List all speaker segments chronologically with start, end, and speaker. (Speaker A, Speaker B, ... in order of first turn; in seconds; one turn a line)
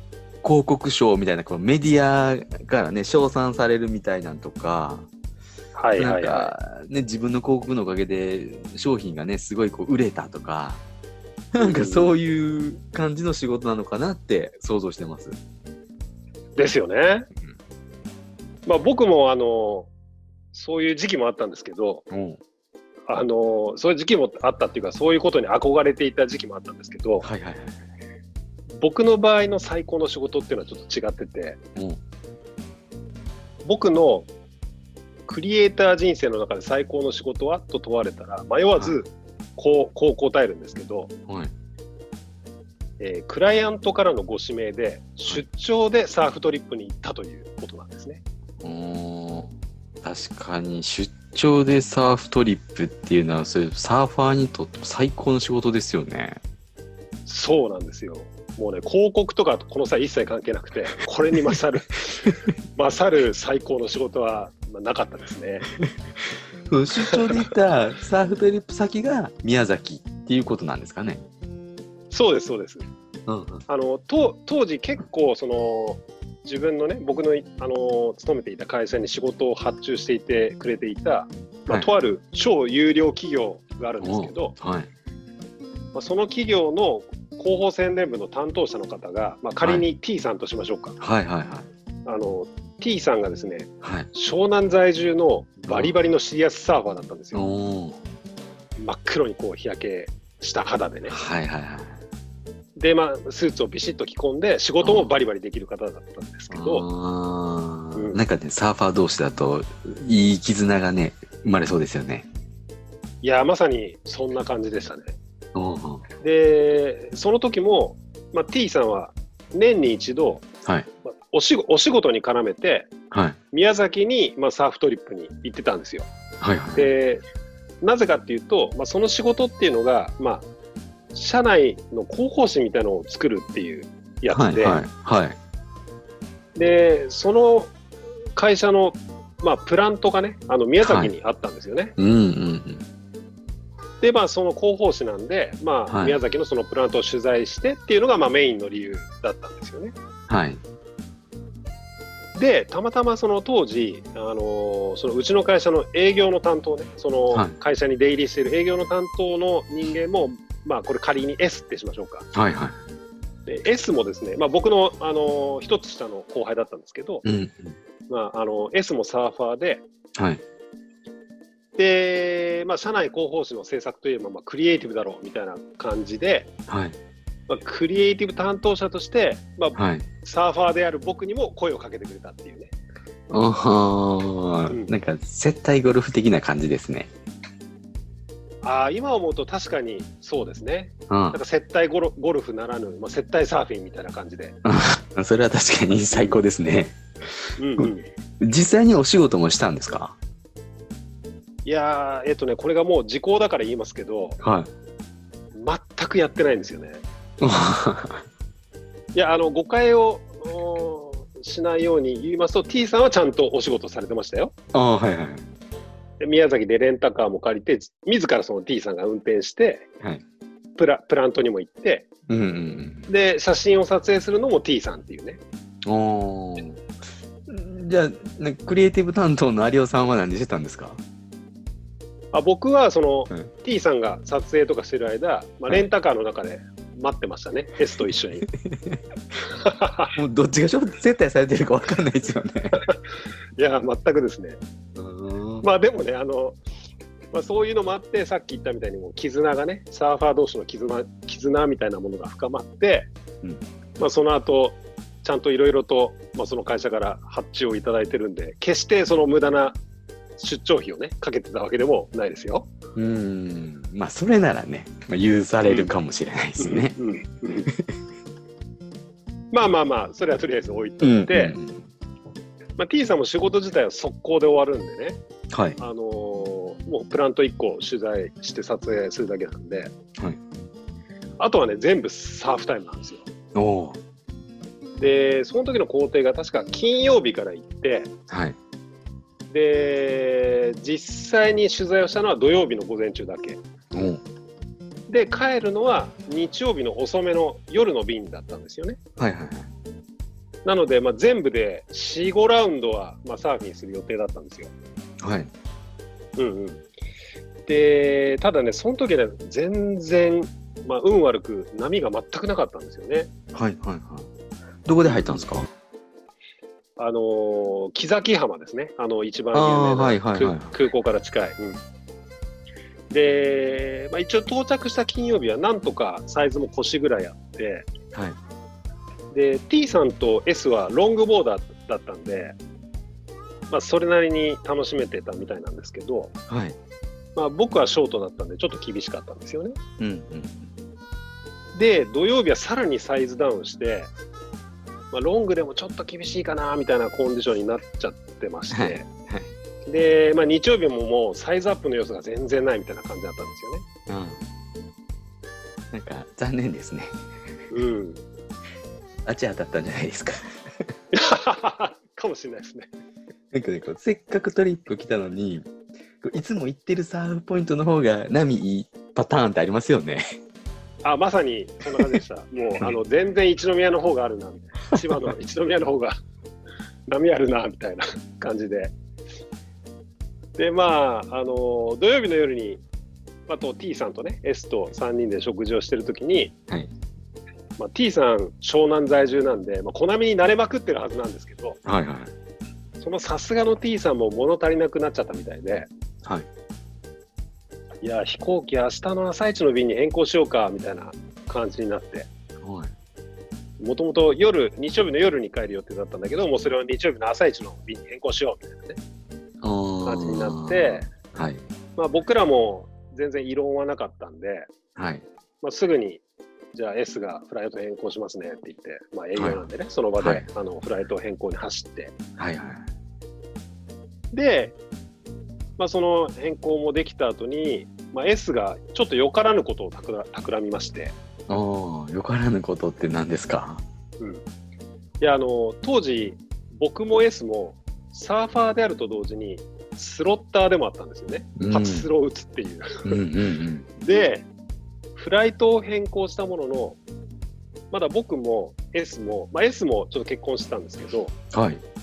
Speaker A: 0.4-5.1
Speaker B: 5.7-6.5
Speaker A: 6.0-10.8
Speaker A: 11.5-15.3
Speaker B: 11.6-12.2
Speaker B: 16.5-17.3
Speaker B: 18.6-19.9
Speaker B: 20.5-22.0
Speaker A: 22.1-22.4
Speaker B: 23.1-27.2
Speaker A: 27.2-27.8
Speaker B: 28.7-31.6
Speaker B: 33.6-34.3
Speaker B: 35.3-41.1
Speaker B: 43.0-48.2
Speaker A: 48.6-56.4
Speaker B: 57.2-65.7
Speaker A: 66.7-71.2
Speaker B: 67.0-67.3
Speaker B: 72.1-72.8
Speaker A: 73.3-73.6
Speaker B: 73.7-84.5
Speaker A: 84.0-84.9
Speaker B: 85.9-91.0
Speaker A: 89.6-89.8
Speaker A: 91.0-91.7
Speaker B: 92.0-97.4
Speaker A: 93.8-94.1
Speaker A: 95.7-95.9
Speaker A: 97.3-98.0
Speaker B: 98.8-101.1
Speaker A: 101.1-102.0
Speaker B: 102.8-106.8
Speaker A: 104.8-105.1
Speaker A: 106.5-112.2
Speaker B: 107.9-108.2
Speaker B: 113.2-115.2
Speaker A: 115.5-116.0
Speaker B: 116.2-120.4
Speaker B: 121.0-122.9
Speaker A: 123.1-123.4
Speaker B: 123.5-126.1
Speaker A: 126.4-126.9
Speaker B: 126.7-127.2
Speaker B: 127.8-130.4
Speaker B: 131.1-134.8
Speaker A: 134.3-135.3
Speaker B: 136.6-137.7
Speaker B: 138.3-141.9
Speaker A: 140.8-141.1
Speaker A: 142.0-142.8
Speaker B: 144.0-149.9
Speaker A: 145.9-146.2
Speaker A: 150.3-150.6
Speaker B: 152.3-162.3
Speaker A: 162.3-162.8
Speaker B: 163.4-167.2
Speaker A: 167.2-167.7
Speaker B: 168.1-169.8
Speaker A: 170.2-170.4
Speaker B: 171.7-176.5
Speaker A: 176.7-176.9
Speaker B: 177.5-182.7
Speaker A: 179.7-180.1
Speaker A: 183.3-187.1
Speaker B: 188.6-194.6
Speaker A: 191.1-191.4
Speaker A: 194.6-196.9
Speaker B: 196.1-196.4
Speaker B: 197.6-198.1
Speaker A: 198.4-200.2
Speaker B: 201.6-204.4
Speaker A: 204.4-204.7
Speaker B: 205.5-207.0
Speaker A: 207.4-208.2
Speaker B: 209.1-214.5
Speaker A: 214.7-215.4
Speaker B: 216.2-219.9
Speaker B: 220.8-222.1
Speaker A: 222.3-223.1
Speaker B: 223.1-225.4
Speaker A: 225.8-226.8
Speaker A: 227.5-231.0
Speaker B: 232.3-238.5
Speaker A: 238.6-239.0
Speaker B: 239.5-240.1
Speaker A: 240.1-242.8
Speaker B: 243.6-244.6
Speaker A: 244.9-245.7
Speaker B: 245.6-246.6
Speaker B: 247.3-253.1
Speaker B: 254.0-259.8
Speaker B: 260.4-262.7
Speaker A: 262.9-267.0
Speaker B: 265.6-265.9
Speaker B: 266.6-267.7
Speaker A: 267.7-267.9
Speaker B: 269.5-271.6
Speaker A: 271.0-271.8
Speaker B: 272.8-275.2
Speaker A: 275.5-275.8
Speaker B: 275.8-279.9
Speaker B: 281.4-283.2
Speaker A: 283.5-284.0
Speaker B: 285.0-288.1
Speaker A: 288.3-288.6
Speaker B: 289.5-293.6
Speaker A: 293.9-294.2
Speaker B: 295.1-299.0
Speaker A: 299.2-299.7
Speaker B: 300.6-304.7
Speaker A: 305.2-305.5
Speaker B: 306.4-306.9
Speaker B: 307.6-313.3
Speaker A: 313.5-314.3
Speaker A: 314.8-315.7
Speaker B: 315.0-315.5
Speaker B: 317.0-321.8
Speaker A: 319.5-320.7
Speaker B: 323.1-327.9
Speaker B: 329.3-332.6
Speaker B: 333.7-336.3
Speaker A: 336.5-336.8
Speaker B: 337.3-339.8
Speaker A: 340.0-340.7
Speaker B: 341.7-344.1
Speaker B: 345.1-349.1
Speaker A: 348.7-349.5
Speaker B: 349.9-353.8
Speaker A: 354.1-354.4
Speaker A: 355.9-357.1
Speaker B: 357.7-358.2
Speaker A: 359.2-360.5
Speaker B: 361.1-362.9
Speaker A: 363.5-365.7
Speaker A: 366.2-370.2
Speaker B: 371.0-376.1
Speaker B: 377.1-378.9
Speaker B: 380.6-382.8
Speaker B: 383.5-386.5
Speaker B: 387.8-391.8
Speaker A: 391.9-392.3
Speaker B: 393.0-395.9
Speaker B: 398.0-402.3
Speaker A: 402.6-402.9
Speaker B: 403.8-409.0
Speaker A: 409.6-411.6
Speaker B: 410.0-411.1
Speaker B: 411.9-414.7
Speaker A: 414.9-415.2
Speaker B: 415.6-416.2
Speaker B: 416.7-422.1
Speaker A: 419.4-419.6
Speaker A: 420.2-420.4
Speaker A: 422.4-422.9
Speaker B: 424.3-424.8
Speaker B: 425.8-431.1
Speaker A: 431.5-433.8
Speaker B: 435.2-443.1
Speaker A: 441.6-442.1
Speaker A: 443.0-444.0
Speaker B: 444.0-444.5
Speaker B: 445.1-447.0
Speaker B: 447.9-451.4
Speaker A: 451.5-451.8